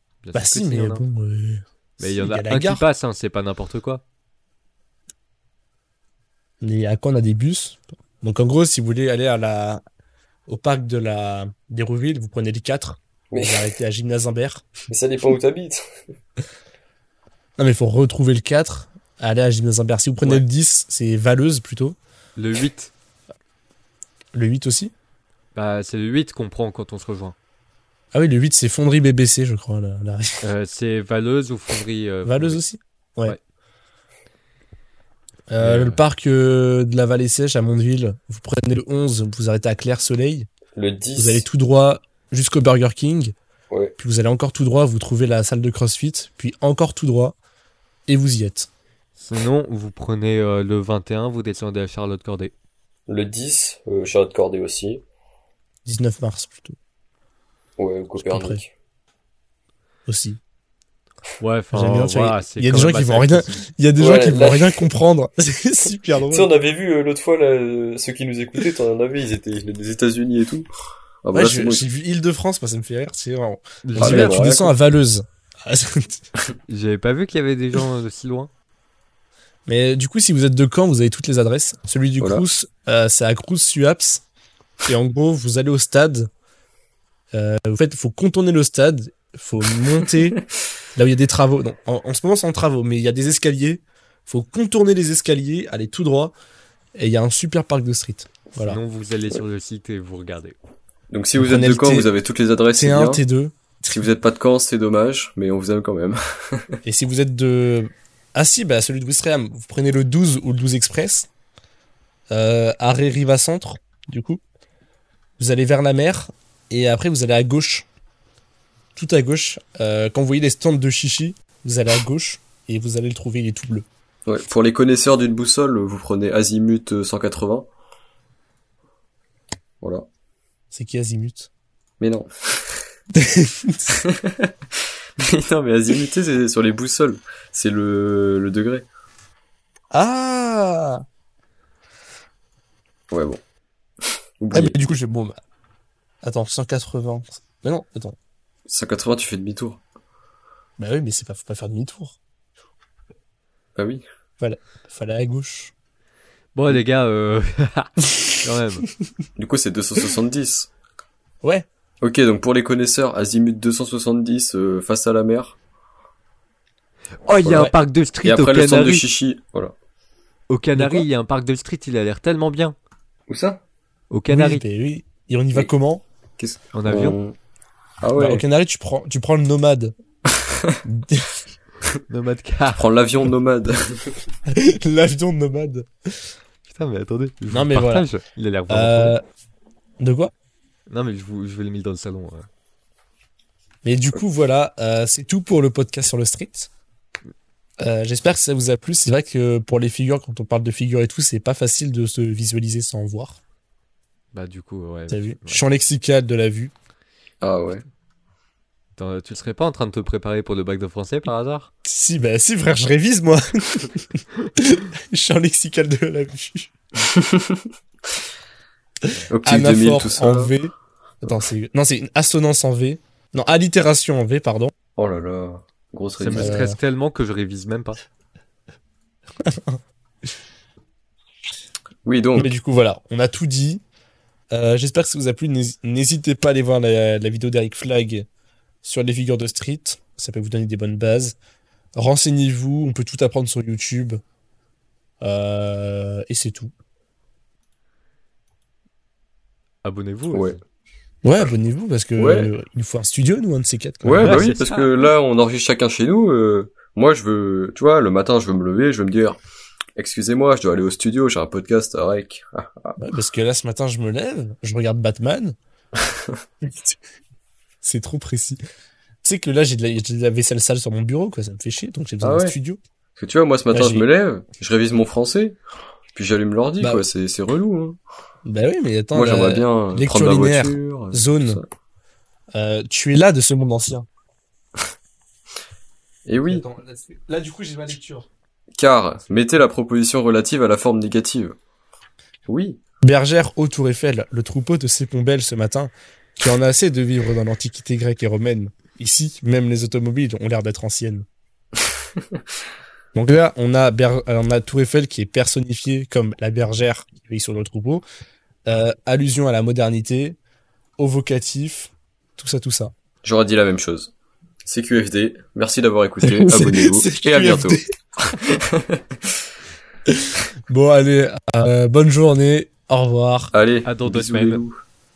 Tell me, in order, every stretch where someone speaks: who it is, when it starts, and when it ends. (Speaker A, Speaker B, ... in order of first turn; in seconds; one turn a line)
Speaker A: 0.2-1.0
Speaker B: 0.3-2.9
Speaker A: 2.0-4.0
Speaker B: 6.6-9.8
Speaker B: 10.5-14.7
Speaker C: 13.3-13.7
Speaker C: 14.9-16.0
Speaker B: 17.6-22.0
Speaker A: 22.4-22.9
Speaker B: 24.3-24.9
Speaker A: 25.6-27.4
Speaker B: 28.1-30.4
Speaker A: 30.4-32.6
Speaker B: 32.2-33.4
Speaker B: 35.5-40.5
Speaker A: 35.6-36.0
Speaker C: 40.7-41.5
Speaker B: 41.2-43.4
Speaker B: 44.0-47.4
Speaker B: 48.1-48.7
Speaker A: 49.2-52.5
Speaker C: 53.1-55.0
Speaker B: 55.9-56.8
Speaker C: 57.8-58.7
Speaker B: 58.2-58.6
Speaker B: 60.1-60.4
Speaker A: 61.4-63.7
Speaker B: 61.7-66.5
Speaker C: 64.0-64.9
Speaker C: 66.1-70.7
Speaker C: 71.2-71.8
Speaker B: 71.3-76.2
Speaker A: 73.9-74.4
Speaker C: 74.0-74.8
Speaker A: 76.7-78.5
Speaker B: 79.7-84.2
Speaker C: 82.2-82.5
Speaker B: 84.8-86.3
Speaker B: 87.3-90.4
Speaker B: 91.0-96.3
Speaker B: 97.0-98.8
Speaker A: 98.6-100.6
Speaker C: 101.1-103.2
Speaker B: 101.4-102.1
Speaker B: 102.8-103.9
Speaker C: 103.9-106.8
Speaker B: 106.8-111.3
Speaker B: 112.3-114.4
Speaker B: 115.4-117.9
Speaker B: 119.0-123.9
Speaker C: 124.3-127.7
Speaker C: 129.8-130.1
Speaker B: 130.7-131.5
Speaker C: 132.0-132.9
Speaker B: 133.2-133.9
Speaker C: 133.9-138.9
Speaker B: 139.9-141.0
Speaker C: 143.1-143.4
Speaker C: 144.0-144.8
Speaker B: 144.5-145.4
Speaker B: 146.2-148.2
Speaker C: 148.7-149.8
Speaker B: 150.8-152.2
Speaker C: 153.8-154.0
Speaker B: 154.4-155.7
Speaker A: 156.6-158.9
Speaker C: 159.4-160.7
Speaker C: 162.0-165.6
Speaker A: 167.2-169.1
Speaker C: 167.4-167.7
Speaker C: 168.2-169.7
Speaker A: 170.5-172.8
Speaker B: 170.8-171.1
Speaker C: 173.3-173.6
Speaker A: 174.1-174.6
Speaker B: 174.3-176.0
Speaker C: 176.4-177.4
Speaker A: 176.7-177.2
Speaker C: 178.0-178.4
Speaker B: 178.2-179.9
Speaker C: 180.4-180.8
Speaker B: 180.8-181.3
Speaker A: 182.1-182.9
Speaker C: 182.7-184.2
Speaker B: 184.5-186.3
Speaker A: 186.7-189.2
Speaker B: 187.5-188.1
Speaker B: 188.7-189.2
Speaker B: 190.0-190.3
Speaker A: 190.9-192.5
Speaker B: 193.8-196.7
Speaker B: 197.8-203.4
Speaker A: 204.3-205.6
Speaker B: 205.1-206.7
Speaker C: 207.4-207.8
Speaker A: 209.0-211.7
Speaker B: 211.8-216.7
Speaker C: 217.0-218.1
Speaker C: 219.3-220.5
Speaker B: 219.4-224.7
Speaker C: 225.0-226.6
Speaker A: 226.2-228.0
Speaker B: 226.3-226.8
Speaker B: 229.4-229.8
Speaker C: 232.1-232.6
Speaker B: 232.4-233.8
Speaker B: 234.5-238.3
Speaker B: 238.8-241.4
Speaker B: 242.0-244.2
Speaker B: 245.2-246.7
Speaker A: 249.8-250.6
Speaker C: 250.3-250.6
Speaker B: 251.2-254.4
Speaker C: 252.2-252.5
Speaker C: 254.0-259.4
Speaker A: 254.2-254.9
Speaker C: 260.0-263.0
Speaker B: 263.0-265.6
Speaker C: 266.0-266.4
Speaker B: 266.6-267.0
Speaker B: 267.8-268.6
Speaker B: 269.2-272.8
Speaker C: 272.2-272.6
Speaker C: 273.2-275.6
Speaker B: 273.7-274.1
Speaker C: 276.1-278.0
Speaker B: 278.4-281.6
Speaker C: 279.1-281.6
Speaker B: 282.6-284.1
Speaker C: 286.3-286.6
Speaker B: 286.4-288.3
Speaker C: 288.8-291.6
Speaker C: 292.5-292.8
Speaker B: 293.0-301.3
Speaker B: 303.1-308.0
Speaker B: 308.7-310.4
Speaker B: 311.0-312.9
Speaker C: 313.2-314.1
Speaker C: 314.6-319.4
Speaker B: 316.2-318.4
Speaker B: 320.2-323.5
Speaker C: 323.5-324.8
Speaker A: 323.9-324.6